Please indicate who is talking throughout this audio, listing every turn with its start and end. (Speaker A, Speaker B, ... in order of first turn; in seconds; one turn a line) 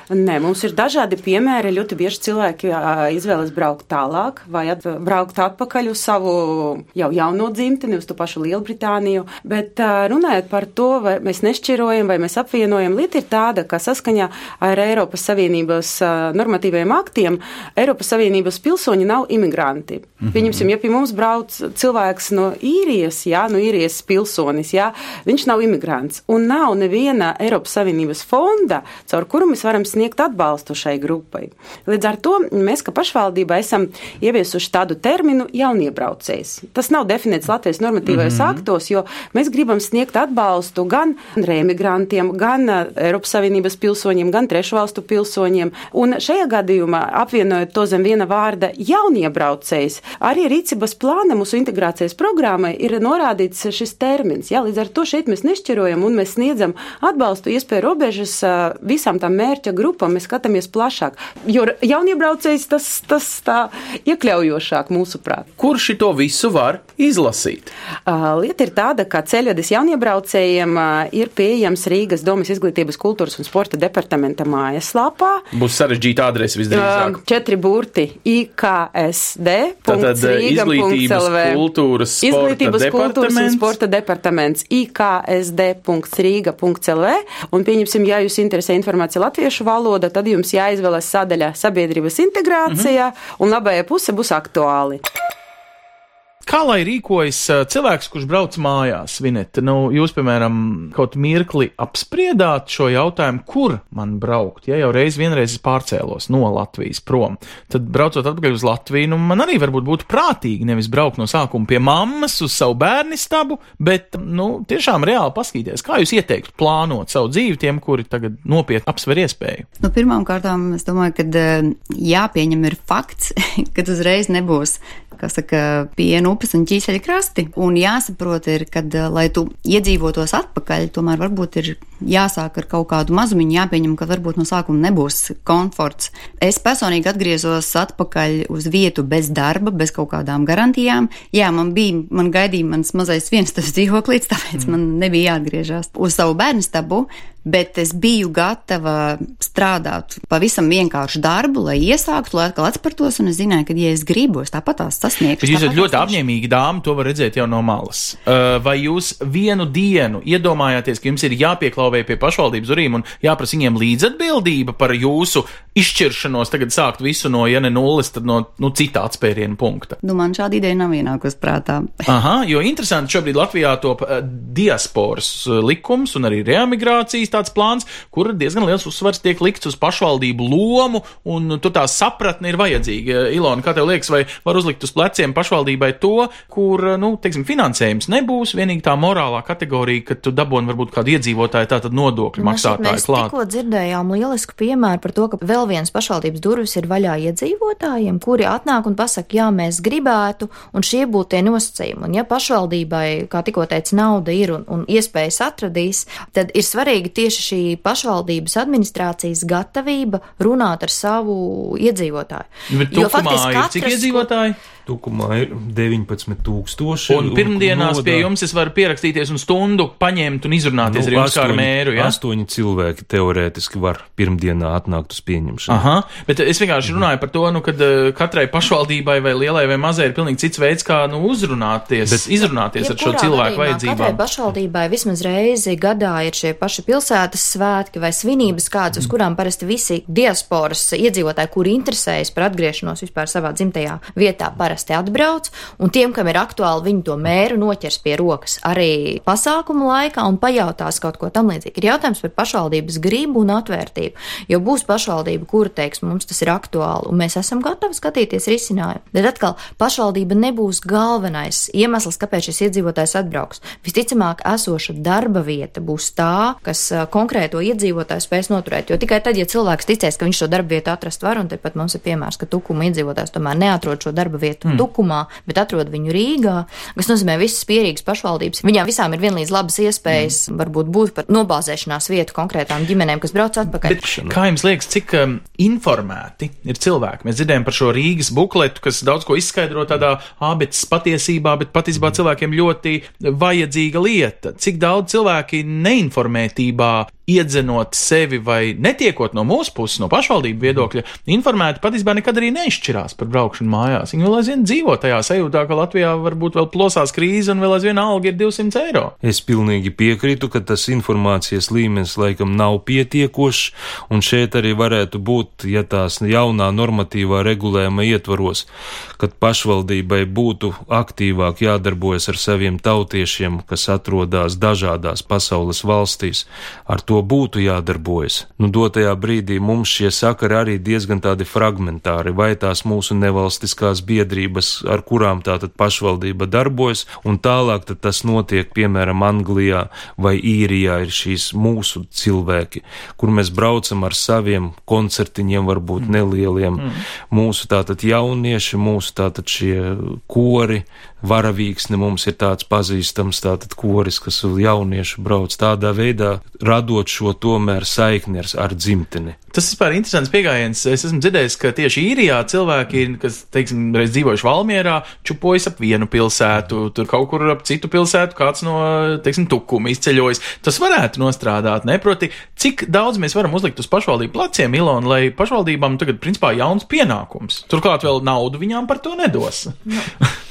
Speaker A: 0.1-65.5
Speaker B: 20.2-20.6
Speaker B: 38.0-38.6
Speaker B: 65.6-67.7
Speaker A: 68.0-75.4
Speaker B: 75.5-77.2
Speaker A: 76.7-81.6
Speaker B: 79.8-83.7
Speaker A: 82.2-95.0
Speaker B: 92.7-92.9
Speaker B: 96.4-119.7
Speaker C: 119.8-156.2
Speaker B: 155.4-169.9
Speaker C: 170.0-172.1
Speaker B: 172.1-193.3
Speaker D: 192.4-214.3
Speaker B: 212.7-214.6
Speaker E: 214.9-218.3
Speaker B: 217.1-222.2
Speaker E: 220.8-225.8
Speaker B: 225.7-234.2
Speaker E: 232.1-232.3
Speaker D: 232.8-284.0
Speaker B: 283.8-309.1
Speaker E: 284.0-284.4
Speaker E: 309.2-359.4
Speaker B: 346.8-347.0
Speaker B: 359.5-380.3